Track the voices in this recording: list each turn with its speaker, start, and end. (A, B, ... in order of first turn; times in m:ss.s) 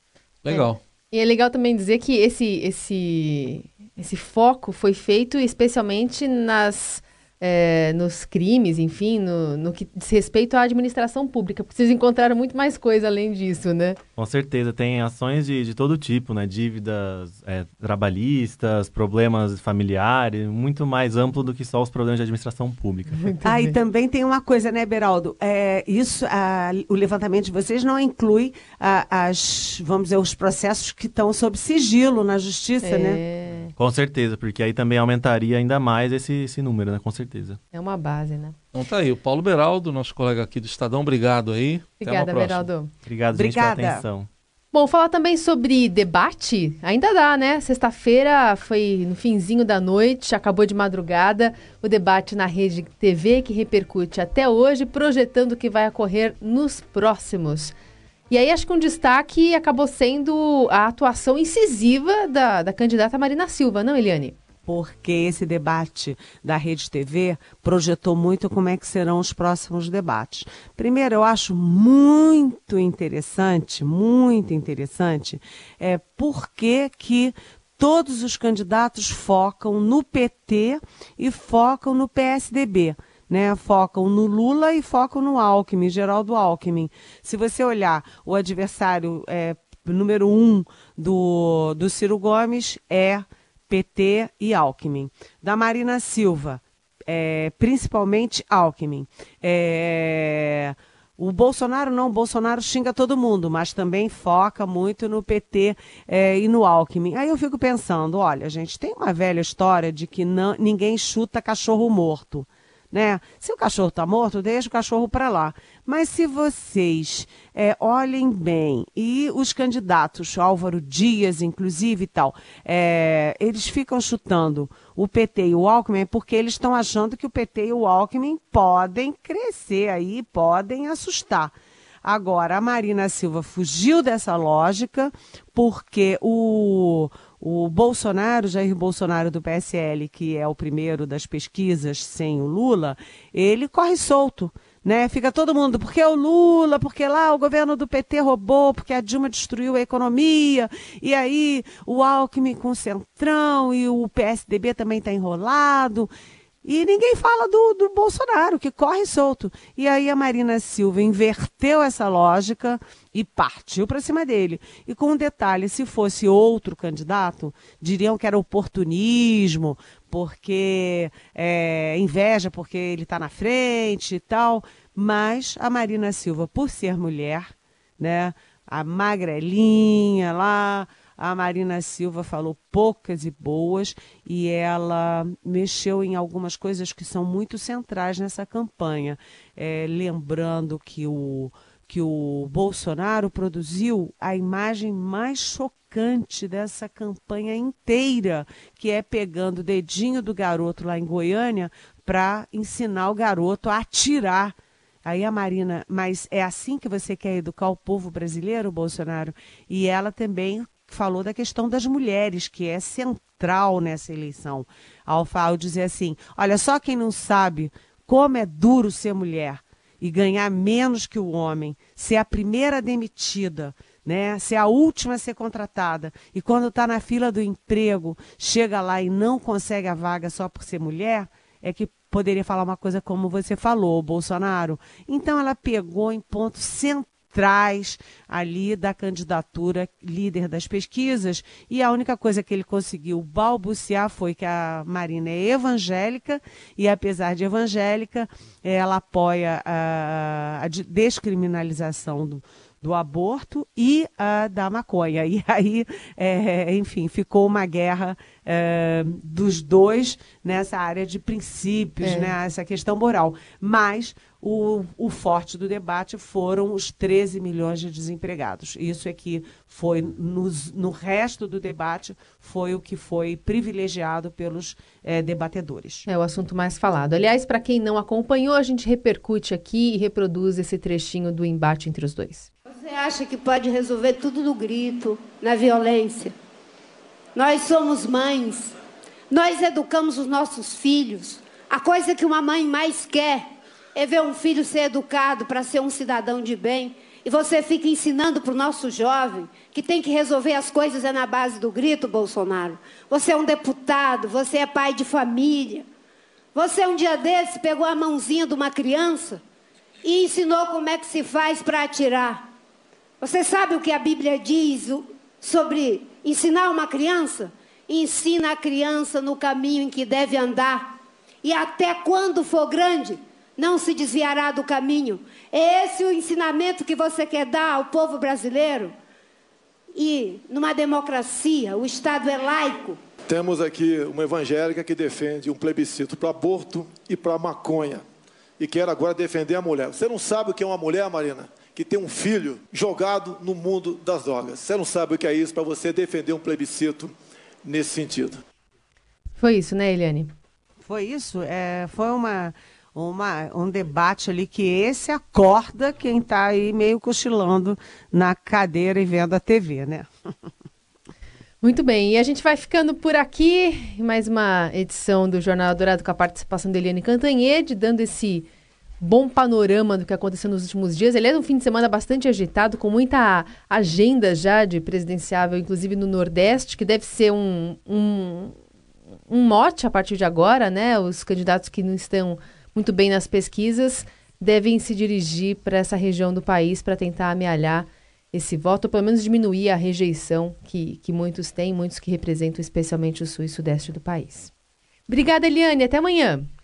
0:00.4-0:00.8 A
0:00.5-0:14.0 B
0:14.2-0:23.4 C
0:23.2-0:23.8 B
0:23.4-0:33.2 D
0:32.8-0:33.7 B
0:33.8-0:37.6 C
0:37.7-0:38.6 B
0:38.7-0:42.7 A
0:42.0-0:42.9 B
0:43.0-0:44.3 C
0:43.3-0:44.0 D
0:44.7-0:57.8 B
0:58.3-1:04.4 B
1:04.6-2:11.5 D
2:12.0-2:36.1 D
2:36.6-2:57.5 D
2:58.0-4:36.1 D
4:22.0-4:22.3 B
4:36.1-4:42.5 B
4:42.7-4:46.4 E
4:47.3-4:48.7 E
4:49.3-5:05.9 E
5:06.5-5:09.4 E
5:10.0-5:12.5 E
5:13.2-5:28.9 E
5:29.9-5:33.0 E
5:33.3-5:38.0 F
5:38.6-5:48.4 F
5:49.4-5:50.3 B
5:50.8-6:00.1 D
6:01.6-6:08.5 B
6:09.0-6:18.6 B
6:19.3-6:34.5 B
6:35.1-6:36.5 B